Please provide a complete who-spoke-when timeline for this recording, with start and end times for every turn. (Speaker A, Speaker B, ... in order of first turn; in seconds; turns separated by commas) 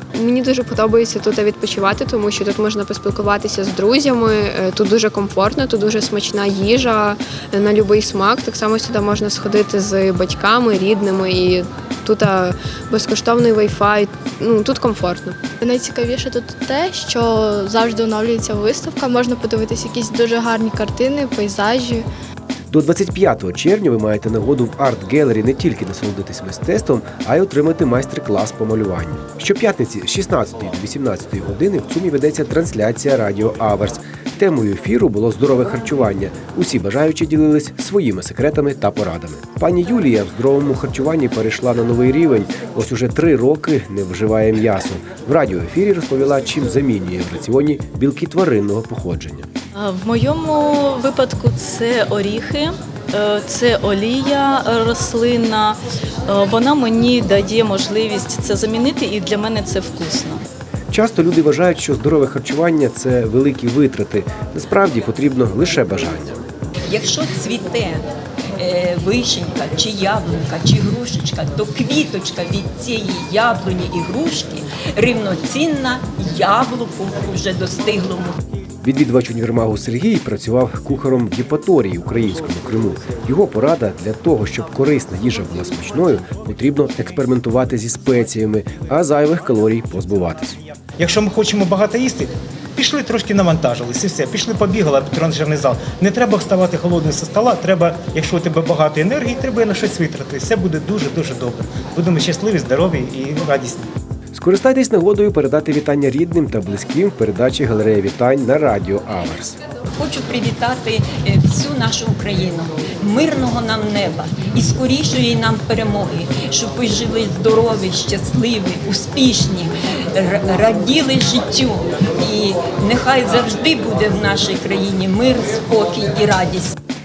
Speaker A: 0.1-15.4, Speaker B: 15.6-22.0, Speaker C: 22.7-49.5, Speaker D: 49.8-60.4, Speaker C: 60.9-66.4, Speaker E: 66.8-68.0, Speaker E: 68.6-78.4, Speaker C: 78.8-90.6, Speaker F: 91.0-103.8, Speaker C: 104.3-109.6, Speaker E: 110.0-126.7